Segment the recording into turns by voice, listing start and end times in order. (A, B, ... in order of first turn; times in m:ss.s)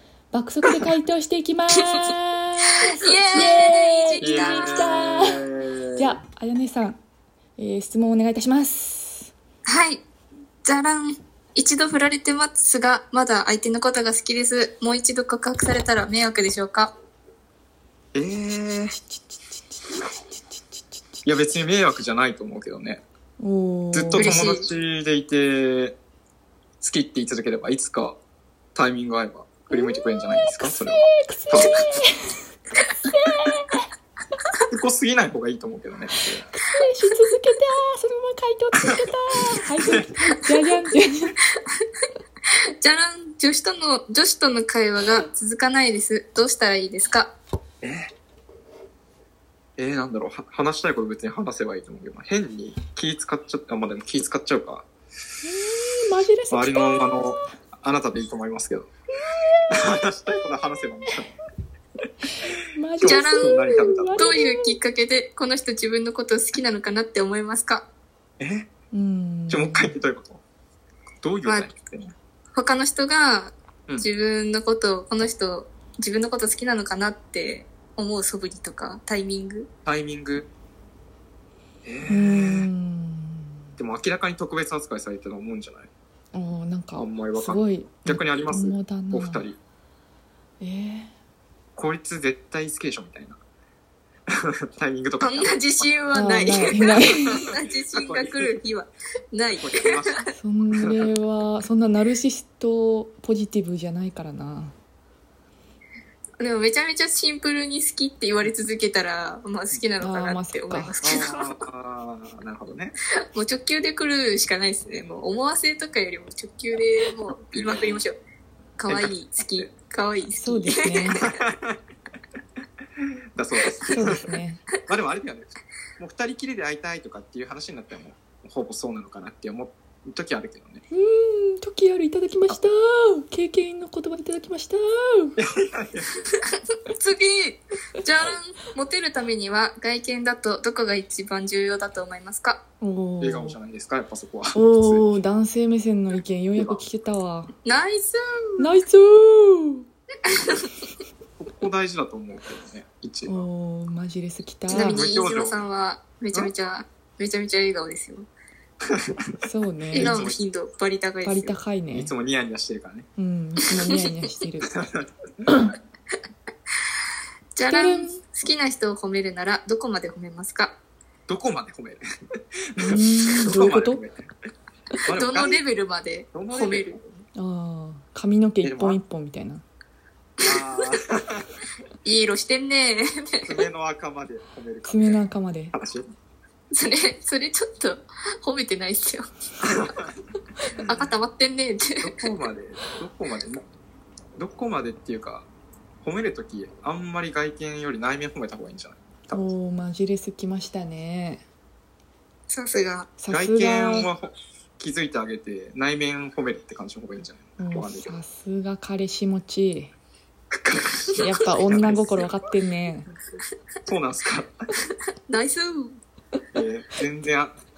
0:00.3-0:07.0 A
0:02.7-0:05.0 B
0:04.2-0:06.2 C
0:07.6-0:09.3 A
0:09.7-0:10.0 B
0:10.6-0:16.9 B
0:18.2-0:19.0 C
0:18.9-0:21.6 A
0:21.2-0:23.0 C
0:23.4-0:24.4 A
0:23.9-0:26.0 C
0:24.1-0:24.7 B
0:26.8-0:28.2 C
0:28.8-0:31.8 C
0:29.7-0:32.4 A
0:33.0-0:33.9 A
0:34.7-0:36.4 C
0:36.2-0:41.3 A
0:42.8-0:47.3 B
0:47.8-0:48.1 C
0:49.8-0:54.9 C
0:55.4-0:57.5 A
0:56.5-0:58.9 C
0:59.3-0:59.7 A
0:59.7-1:01.3 C
1:02.7-1:04.8 A
1:03.0-1:04.4 C
1:03.0-1:07.9 B
1:08.4-1:08.7 C
1:08.9-1:10.0 A
1:09.5-1:10.4 C
1:11.2-1:12.1 C
1:11.4-1:11.7 B
1:12.6-1:19.7 B
1:19.9-1:20.5 C
1:21.8-1:22.7 C
1:22.1-1:23.6 A
1:23.8-1:25.9 C
1:26.3-1:29.5 A
1:27.0-1:29.6 C
1:30.6-1:31.1 A
1:31.8-1:33.4 C
1:34.7-1:35.8 C
1:35.2-1:40.1 B
1:36.1-1:37.4 A
1:36.8-1:38.6 C
1:39.6-1:40.2 C
1:40.3-1:44.8 A
1:40.8-1:41.1 C
1:46.4-1:51.6 B
1:50.0-1:50.9 A
1:51.0-1:52.9 C
1:53.3-1:58.2 B
1:57.4-1:58.0 C
1:58.8-2:01.2 B
1:58.9-1:59.7 C
2:00.4-2:01.2 A
2:01.2-2:01.8 C
2:03.4-2:04.3 C
2:03.9-2:04.6 A
2:04.9-2:10.8 C
2:10.9-2:15.4 A
2:15.4-2:16.3 C
2:16.9-2:22.6 B
2:22.8-2:23.6 A
2:23.2-2:25.1 C
2:24.6-2:27.5 A
2:26.6-2:26.8 C
2:27.6-2:28.6 B
2:28.6-2:29.9 A
2:30.3-2:30.7 B
2:31.4-2:33.5 C
2:33.3-2:35.0 A
2:34.7-2:35.6 C
2:34.7-2:38.3 B
2:39.4-2:40.2 A
2:39.9-2:40.4 C
2:39.9-2:41.6 B
2:41.2-2:42.1 A
2:41.9-2:43.1 C
2:43.2-2:44.7 A
2:44.7-2:45.1 C
2:45.5-2:45.7 A
2:47.6-2:50.8 B
2:47.7-2:48.2 A
2:51.3-2:52.0 C
2:52.7-2:54.3 C
2:52.8-2:54.0 A
2:55.1-2:55.6 C
2:55.1-2:57.0 B
2:56.3-2:57.3 C
2:57.4-2:59.6 A
2:58.6-2:59.0 C
3:00.4-3:01.5 C
3:00.4-3:01.0 B
3:02.0-3:03.6 B
3:03.5-3:06.1 C
3:04.9-3:05.8 A
3:06.7-3:09.3 B
3:09.6-3:10.1 C
3:10.7-3:11.2 C
3:10.9-3:12.1 B
3:12.0-3:13.6 C
3:14.4-3:15.5 C
3:16.0-3:19.5 C
3:19.3-3:21.4 A
3:22.5-3:23.1 B
3:23.2-3:24.1 A
3:23.3-3:28.2 C
3:27.6-3:29.9 A
3:30.5-3:32.4 C
3:31.2-3:33.1 A
3:33.9-3:34.5 C
3:35.3-3:36.0 B
3:36.5-3:37.6 C